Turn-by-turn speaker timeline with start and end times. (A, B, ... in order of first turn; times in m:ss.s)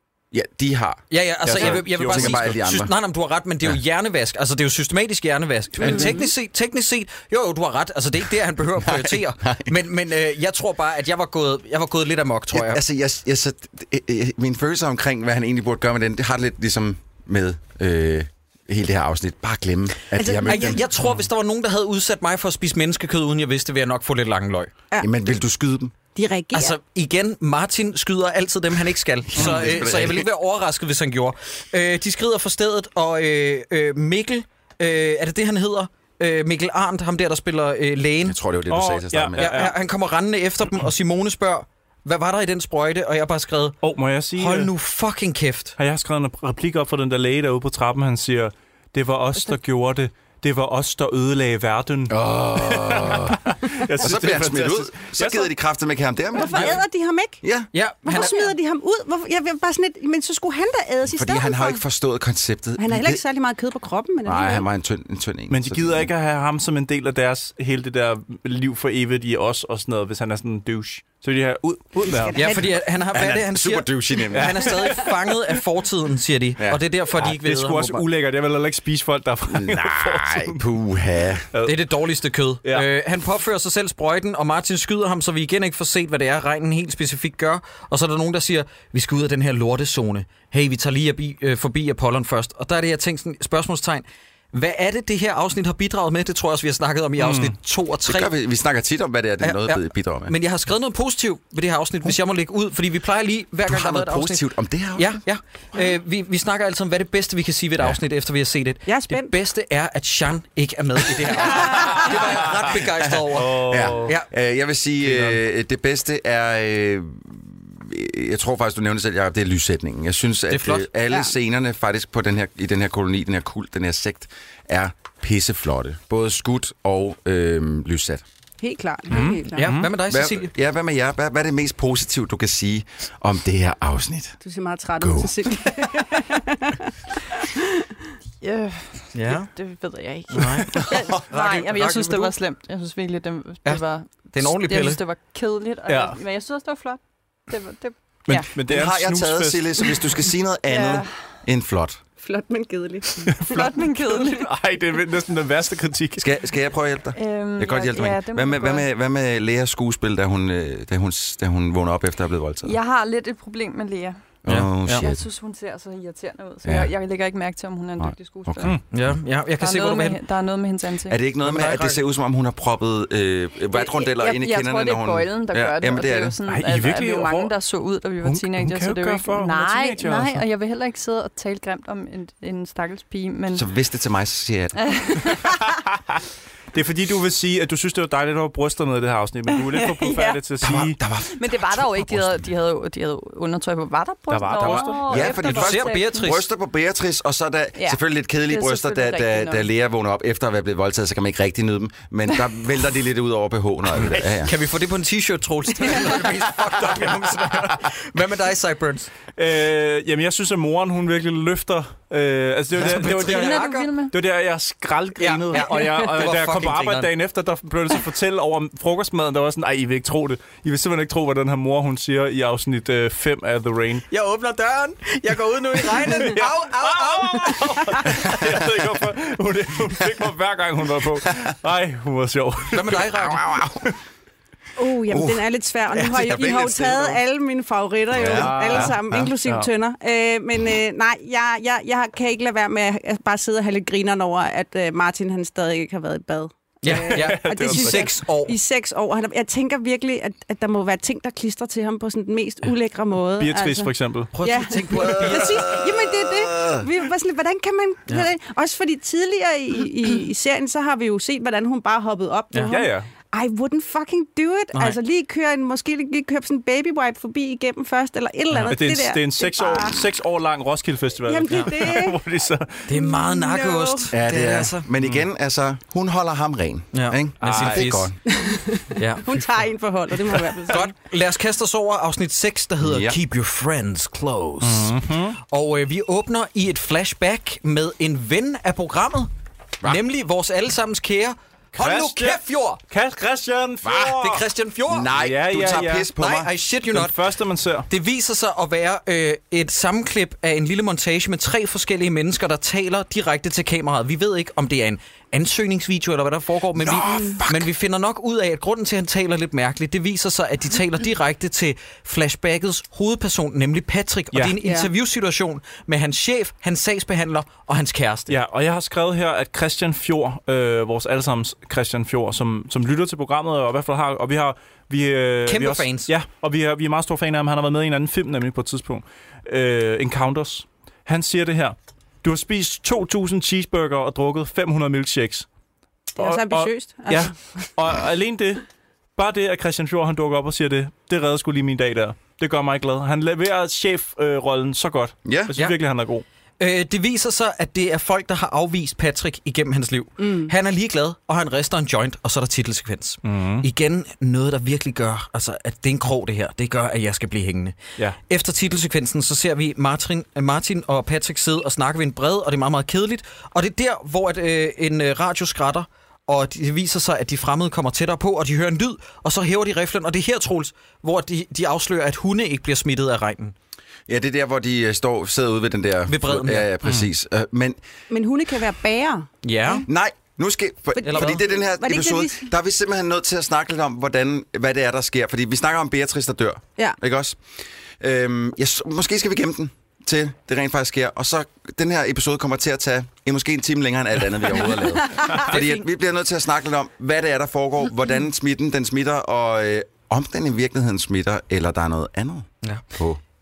0:00.3-0:02.9 A
0:01.1-0:12.8 B
0:01.5-0:02.6 C
0:05.8-0:06.2 A
0:05.8-0:06.3 D
0:08.8-0:09.7 A
0:12.5-0:20.8 A
0:20.2-0:20.8 D
0:20.4-0:24.7 B
0:25.0-0:25.9 A
0:26.2-0:26.8 D
0:26.5-0:38.4 B
0:29.3-0:30.3 A
0:38.2-0:39.7 A
0:38.7-0:39.8 C
0:39.4-0:43.8 B
0:43.8-0:44.7 C
0:44.4-0:45.8 B
0:45.8-0:55.5 C
0:52.1-0:56.8 A
0:56.3-0:57.4 D
0:56.4-0:56.8 C
0:57.4-0:57.7 A
0:57.7-0:58.5 B
0:58.0-1:01.8 D
1:01.0-1:03.2 A
1:02.8-1:04.7 D
1:04.2-1:06.1 A
1:05.5-1:12.6 C
1:12.0-1:12.8 D
1:12.4-1:18.0 B
1:13.1-1:14.8 A
1:14.3-1:15.1 C
1:17.2-1:20.6 C
1:19.5-1:21.5 A
1:21.6-1:38.3 B
1:37.2-1:37.5 C
1:38.0-1:40.4 A
1:39.4-1:54.3 B
1:43.6-1:45.2 A
1:48.9-1:49.4 D
1:51.4-1:52.1 D
1:53.3-1:54.1 C
1:53.6-2:08.2 A
1:55.0-1:55.4 C
2:00.5-2:00.9 B
2:08.6-2:09.7 D
2:09.1-2:09.9 C
2:09.5-2:10.5 B
2:10.1-2:14.4 A
2:14.4-2:17.9 D
2:15.0-2:15.8 A
2:18.4-2:28.5 E
2:19.1-2:19.5 B
2:20.3-2:22.3 B
2:20.4-2:21.2 A
2:23.6-2:25.0 B
2:25.9-2:26.2 C
2:28.3-2:30.0 C
2:28.6-2:32.0 A
2:30.7-2:31.1 E
2:32.2-2:33.7 D
2:33.2-2:36.3 C
2:33.5-2:34.5 E
2:36.2-2:42.8 A
2:37.1-2:38.9 E
2:42.6-2:44.2 E
2:44.4-2:45.2 A
2:44.5-2:45.1 B
2:44.9-2:48.7 E
2:46.6-2:46.9 A
2:48.0-2:48.8 A
2:48.9-2:50.2 B
2:49.6-2:51.2 E
2:51.1-2:56.4 A
2:51.4-2:52.0 B
2:53.7-3:03.7 E
2:56.5-2:57.5 C
2:58.2-3:00.4 C
3:03.5-3:05.3 A
3:04.8-3:05.6 E
3:05.5-3:05.8 C
3:06.7-3:11.0 C
3:09.5-3:10.4 E
3:10.6-3:12.5 A
3:11.3-3:16.3 E
3:14.3-3:15.5 C
3:14.6-3:24.5 A
3:15.2-3:16.5 B
3:17.8-3:19.7 E
3:24.4-3:29.1 B
3:29.4-3:44.0 C
3:32.8-3:33.9 B
3:33.1-3:34.1 E
3:35.2-3:37.1 B
3:44.1-3:48.5 B
3:46.0-3:46.4 D
3:46.1-3:53.1 C
3:52.7-3:53.4 B
3:53.2-3:53.9 A
3:54.8-4:30.1 D
3:55.1-3:57.2 A
3:58.1-3:59.3 A
3:58.3-3:59.7 C
4:06.8-4:08.6 B
4:06.9-4:08.2 C
4:13.4-4:14.3 C
4:14.3-4:15.6 B
4:14.8-4:16.9 A
4:22.5-4:22.8 B
4:22.7-4:23.1 C
4:28.7-4:32.9 C
4:31.3-4:32.2 D
4:32.9-4:34.9 B
4:32.9-4:34.1 D
4:34.1-4:38.2 A
4:36.9-4:38.1 B
4:37.4-4:38.0 C
4:38.3-4:40.9 D
4:39.0-4:39.4 B
4:40.7-4:49.3 B
4:42.8-4:43.2 A
4:44.6-4:45.4 C
4:49.8-4:52.8 B
4:51.8-4:54.5 C
4:53.9-4:55.1 B
4:54.9-4:56.5 A
4:55.2-4:56.1 C
4:56.1-4:57.2 B
4:56.9-4:57.9 C
4:57.9-5:18.4 B
5:06.8-5:07.7 A
5:14.3-5:14.6 C
5:14.6-5:14.9 D
5:18.3-5:35.5 C
5:25.4-5:26.1 B
5:36.2-5:37.7 D
5:36.2-5:38.6 C
5:39.2-5:46.2 C
5:45.2-5:45.5 A
5:46.6-6:13.6 B
5:50.2-5:50.5 D
5:53.2-5:53.7 C
6:14.1-6:17.8 A
6:16.1-6:16.7 B
6:18.1-6:19.9 D
6:19.4-6:19.8 B
6:19.9-6:27.4 A
6:21.0-6:22.5 D
6:21.0-6:21.4 B
6:28.0-6:43.2 A
6:35.1-6:35.6 D
6:35.5-6:35.8 B